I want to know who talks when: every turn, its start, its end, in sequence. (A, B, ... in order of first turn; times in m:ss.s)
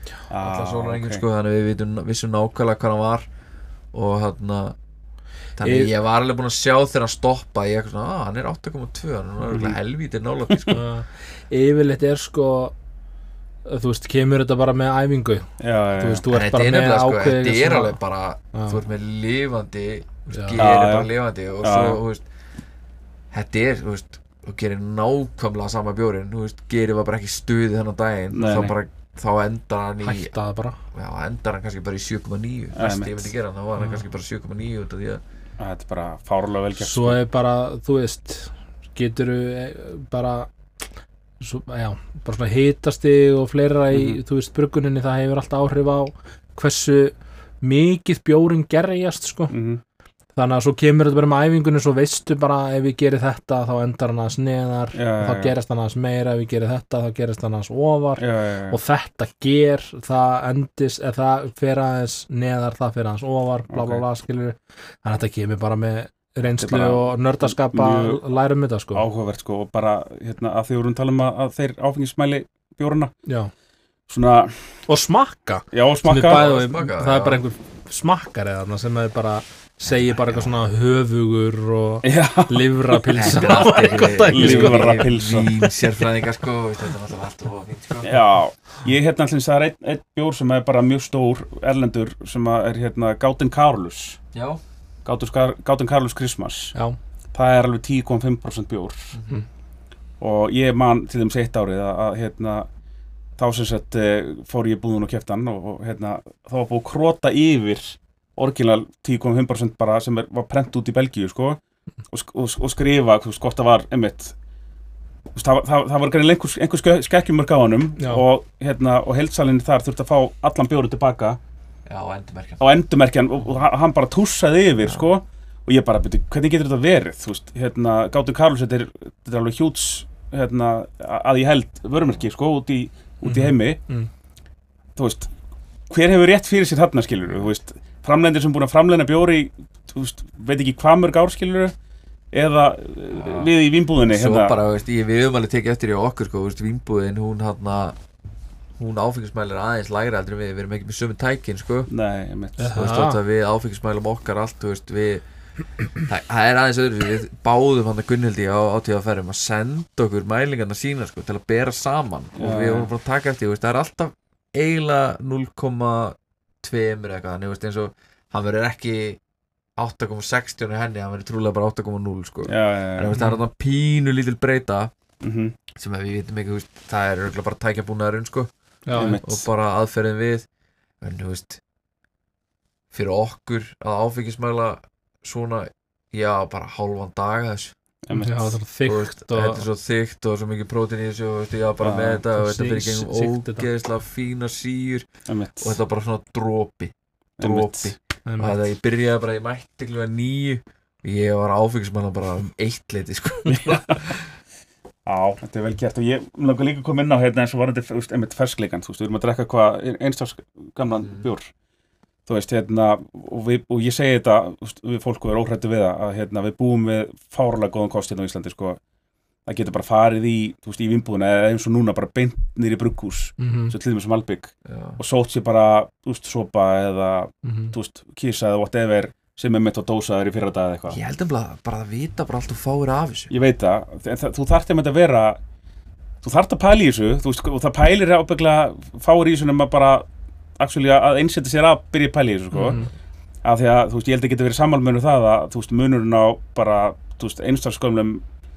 0:00.3-0:01.2 A
0:00.4-0:03.2 B
0:03.9-0:04.8 B
0:05.6-0:10.8 B
0:05.6-0:05.9 C
0:09.5-0:09.8 A
0:10.5-0:10.8 A
0:10.7-0:12.7 C
0:13.6-0:18.0 C
0:15.6-0:16.2 A
0:16.3-0:22.2 B
0:18.5-0:18.8 C
0:20.3-0:20.6 C
0:20.6-0:21.1 A
0:21.6-0:22.0 A
0:23.3-0:30.3 B
0:28.3-0:28.8 A
0:30.0-0:30.8 C
0:30.9-0:35.2 B
0:32.8-0:33.3 A
0:35.6-0:37.2 A
0:36.8-0:40.5 C
0:41.4-0:49.5 C
0:43.9-0:44.2 A
0:49.5-0:49.8 A
0:50.4-1:09.0 C
0:54.9-0:55.5 A
0:58.2-0:58.8 A
1:03.7-1:04.0 A
1:06.6-1:08.2 A
1:08.9-1:13.1 A
1:13.2-1:13.5 C
1:14.1-1:14.8 A
1:14.9-1:25.7 C
1:15.7-1:16.4 A
1:16.2-1:17.4 B
1:20.1-1:20.5 B
1:22.0-1:25.6 A
1:23.2-1:28.2 B
1:28.0-1:34.2 A
1:34.3-1:34.6 B
1:35.0-1:36.7 A
1:37.3-1:39.1 A
1:39.1-1:39.4 B
1:40.2-1:42.7 A
1:43.4-1:51.6 A
1:52.1-1:54.3 A
1:55.3-2:01.4 A
2:01.9-2:02.6 B
2:02.6-2:13.8 A
2:04.8-2:05.1 B
2:13.2-2:14.1 C
2:15.0-2:15.3 A
2:15.9-2:21.7 A
2:22.3-2:24.5 A
2:23.1-2:23.5 B
2:24.1-2:28.0 B
2:28.8-2:31.9 B
2:31.9-2:32.7 A
2:32.6-2:33.2 C
2:32.7-2:35.2 B
2:36.0-2:49.2 B
2:42.4-2:42.9 A
2:49.8-2:54.9 B
2:52.4-2:53.1 A
2:53.1-2:53.4 C
2:55.2-2:55.6 A
2:55.7-2:58.5 B
2:58.8-2:59.2 C
2:58.9-2:59.4 A
2:59.0-3:00.4 B
3:01.0-3:01.6 B
3:02.9-3:07.7 B
3:08.1-3:08.5 A
3:08.1-3:09.6 C
3:08.8-3:15.1 B
3:11.8-3:12.2 A
3:12.3-3:13.7 C
3:15.3-3:15.8 A
3:15.6-3:24.2 B
3:17.4-3:17.9 A
3:18.2-3:18.6 C
3:23.5-3:24.1 A
3:25.0-3:31.5 A
3:32.3-3:38.8 A
3:39.4-3:51.0 A
3:43.4-3:43.7 C
3:44.6-3:45.0 B
3:47.4-3:47.7 C
3:50.9-3:53.3 B
3:53.3-3:55.4 A
3:56.2-4:00.0 A
4:00.6-4:02.8 A
4:02.5-4:02.9 C
4:03.4-4:08.2 A